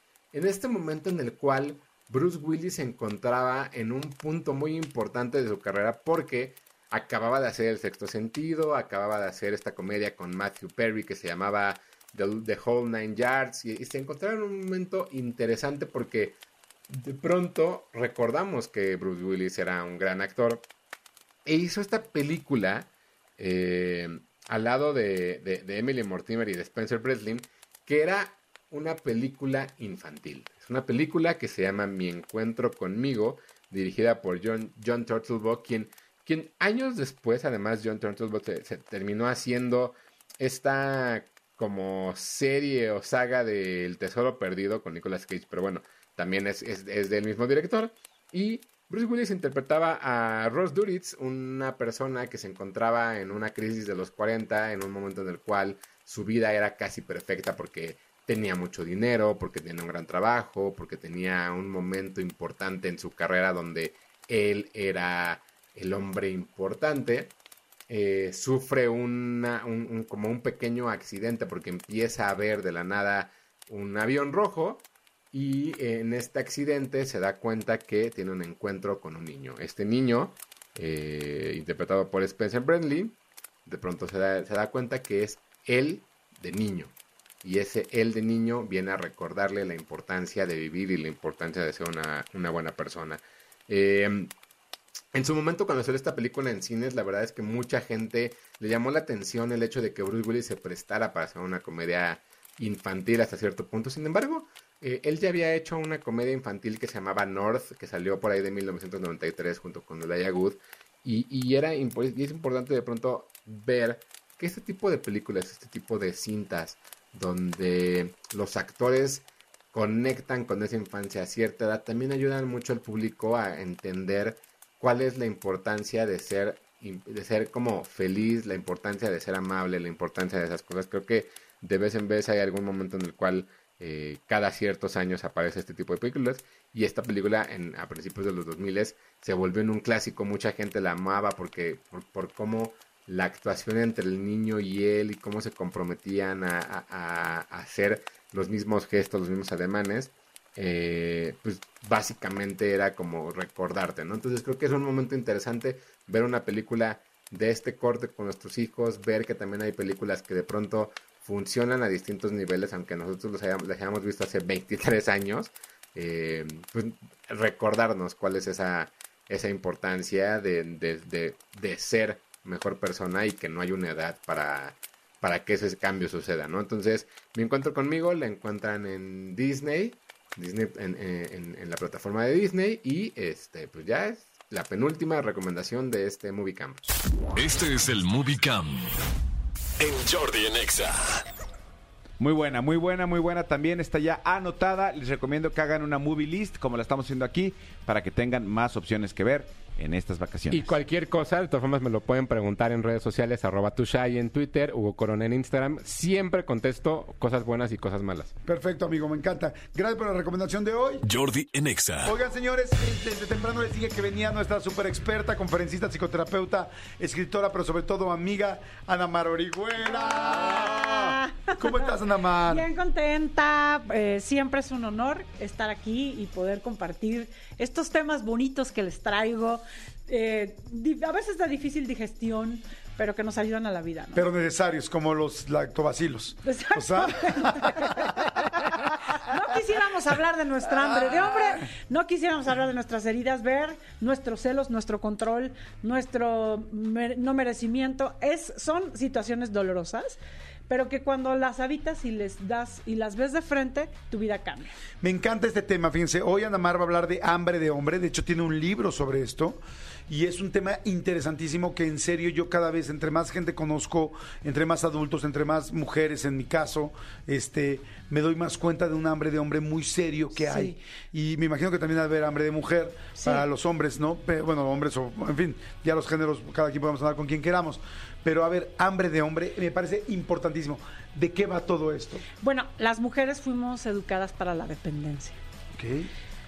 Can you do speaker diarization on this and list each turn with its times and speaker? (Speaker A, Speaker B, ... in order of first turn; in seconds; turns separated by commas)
Speaker A: 0.3-16.4, Speaker A: 16.9-20.6, Speaker A: 21.4-67.3, Speaker A: 67.9-94.3, Speaker A: 95.1-186.9, Speaker B: 187.3-188.9, Speaker B: 189.8-191.3, Speaker C: 192.2-200.7, Speaker A: 200.5-208.3, Speaker D: 208.4-211.0, Speaker B: 211.0-212.1, Speaker D: 212.0-222.7, Speaker E: 219.9-234.3, Speaker D: 234.1-237.8, Speaker E: 236.4-254.7, Speaker D: 240.8-241.6, Speaker D: 255.0-282.2, Speaker E: 270.4-270.8, Speaker E: 273.2-273.4, Speaker E: 282.4-285.4, Speaker D: 285.8-286.1